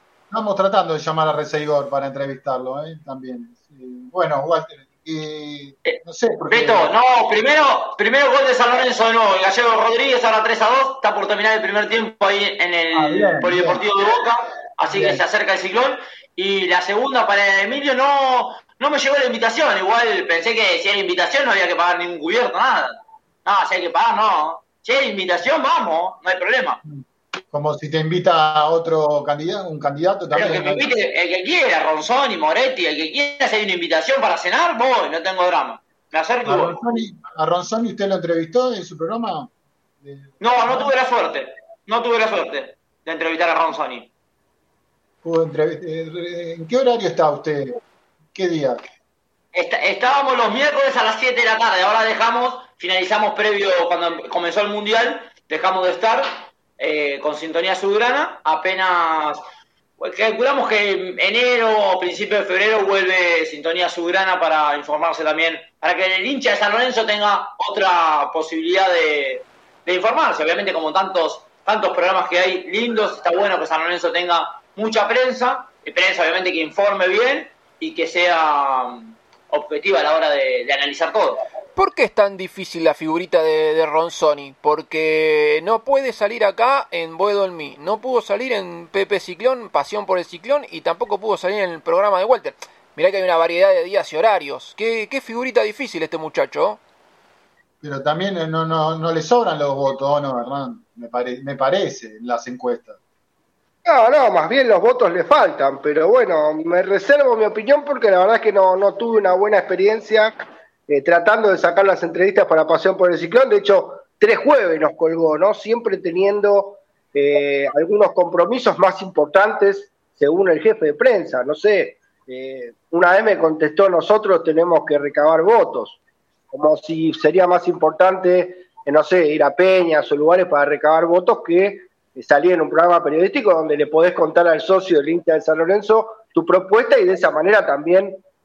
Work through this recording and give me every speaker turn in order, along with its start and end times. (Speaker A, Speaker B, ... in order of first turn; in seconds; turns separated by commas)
Speaker A: 0.3-6.9, Speaker B: 6.5-26.8, Speaker A: 12.9-13.8, Speaker A: 14.8-15.2, Speaker A: 26.9-30.9, Speaker B: 30.3-36.8, Speaker A: 36.4-39.5, Speaker A: 40.0-40.9, Speaker B: 40.4-44.1, Speaker A: 45.2-47.8, Speaker A: 48.3-48.8, Speaker B: 49.5-59.4, Speaker B: 60.0-81.4, Speaker C: 81.8-96.8, Speaker A: 97.8-103.0, Speaker D: 103.8-110.3, Speaker D: 110.9-126.0, Speaker D: 126.5-138.2